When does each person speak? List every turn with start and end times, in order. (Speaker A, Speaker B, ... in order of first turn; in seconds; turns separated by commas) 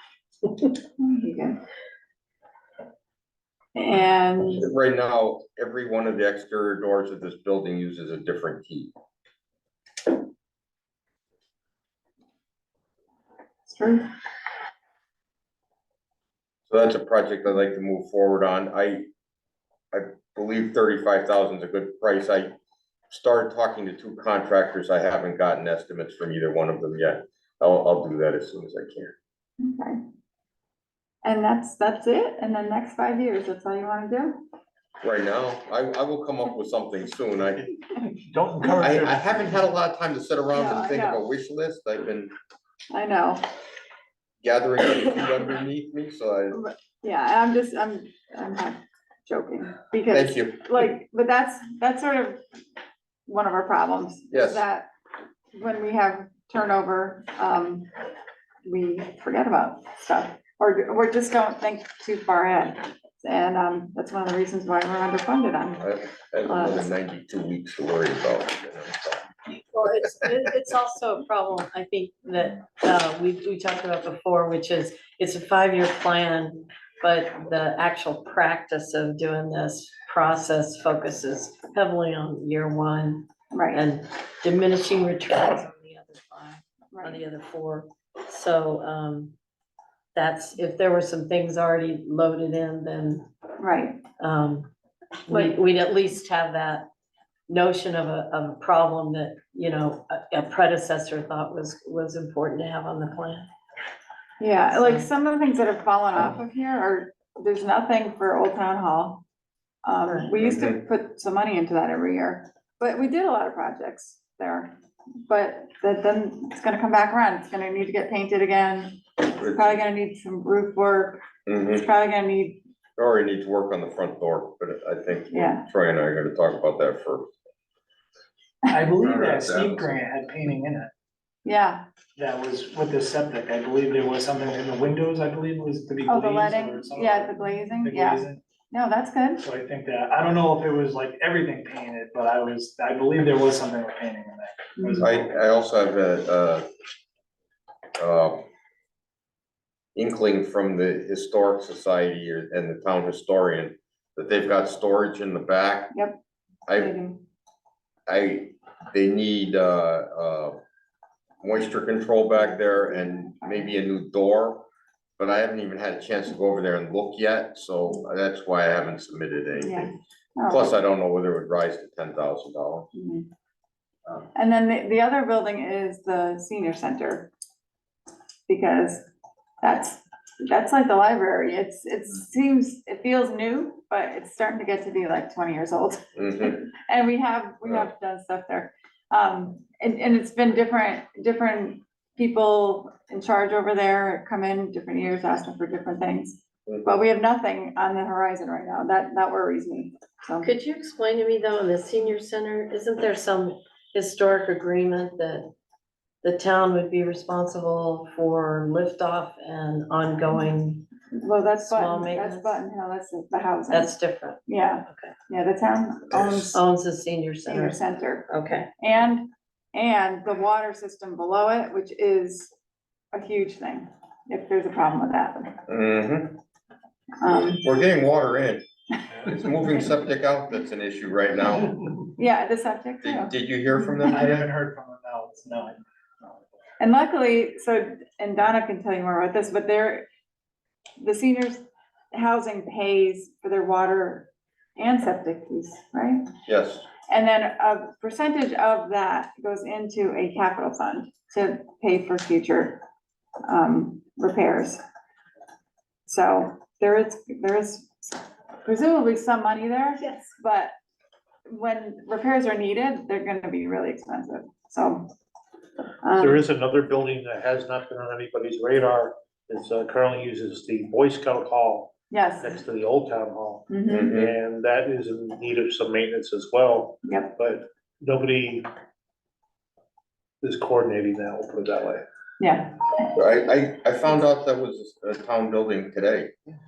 Speaker A: 1.0-1.6, Speaker A: 3.8-4.7, Speaker B: 4.5-8.9, Speaker A: 13.7-14.1, Speaker B: 16.7-19.1, Speaker B: 19.9-22.6, Speaker B: 23.1-29.1, Speaker A: 29.6-30.0, Speaker A: 31.2-34.5, Speaker B: 35.0-37.7, Speaker C: 38.2-38.9, Speaker D: 38.4-39.6, Speaker B: 38.8-42.3, Speaker A: 40.5-41.2, Speaker A: 42.9-43.4, Speaker B: 44.4-46.6, Speaker A: 46.5-52.4, Speaker B: 50.1-50.9, Speaker A: 53.3-54.9, Speaker B: 54.3-54.6, Speaker A: 55.5-57.9, Speaker A: 58.6-65.8, Speaker B: 65.8-69.2, Speaker A: 66.5-66.9, Speaker E: 69.5-89.3, Speaker A: 83.5-83.8, Speaker A: 86.9-87.2, Speaker E: 90.2-93.3, Speaker A: 93.6-94.0, Speaker E: 94.2-94.7, Speaker E: 95.3-96.9, Speaker E: 97.5-103.5, Speaker A: 104.4-109.2, Speaker E: 104.7-105.1, Speaker A: 109.8-114.8, Speaker E: 110.1-110.3, Speaker B: 110.4-110.8, Speaker A: 115.3-121.2, Speaker B: 119.3-119.8, Speaker B: 121.5-121.9, Speaker A: 121.8-122.6, Speaker B: 123.0-127.3, Speaker A: 125.3-125.7, Speaker C: 128.7-130.9, Speaker B: 129.0-129.9, Speaker A: 131.4-131.8, Speaker C: 132.2-138.4, Speaker A: 136.1-139.4, Speaker C: 139.4-145.3, Speaker B: 145.0-146.7, Speaker B: 148.0-148.5, Speaker B: 149.9-155.9, Speaker A: 155.9-156.2, Speaker B: 156.7-157.0, Speaker A: 156.8-157.2, Speaker B: 158.1-160.6, Speaker B: 161.4-164.7, Speaker A: 162.5-163.7, Speaker B: 165.2-172.9, Speaker A: 169.6-170.7, Speaker A: 172.9-173.3, Speaker A: 174.3-177.3, Speaker A: 178.5-179.1, Speaker A: 179.6-200.5, Speaker B: 186.2-186.6, Speaker E: 200.4-205.5, Speaker E: 206.2-210.9, Speaker A: 211.1-213.9, Speaker E: 211.6-212.6, Speaker E: 213.7-215.1, Speaker A: 214.5-216.6, Speaker E: 216.5-218.7, Speaker A: 217.5-222.5, Speaker A: 223.1-225.6, Speaker B: 225.7-226.4, Speaker A: 227.2-227.6, Speaker B: 227.2-228.6, Speaker B: 229.2-231.8, Speaker A: 232.2-233.3, Speaker B: 233.0-234.4, Speaker C: 234.1-235.8, Speaker A: 236.8-240.1, Speaker A: 241.0-246.2, Speaker B: 246.5-246.9, Speaker A: 247.1-252.8, Speaker A: 253.5-254.8, Speaker A: 256.1-260.7, Speaker A: 261.5-265.1, Speaker A: 266.0-266.4, Speaker D: 266.2-278.7, Speaker A: 272.1-272.6, Speaker A: 273.7-274.1, Speaker B: 273.9-274.3, Speaker A: 277.0-277.3, Speaker D: 280.4-282.0, Speaker A: 282.4-282.8, Speaker B: 283.1-286.4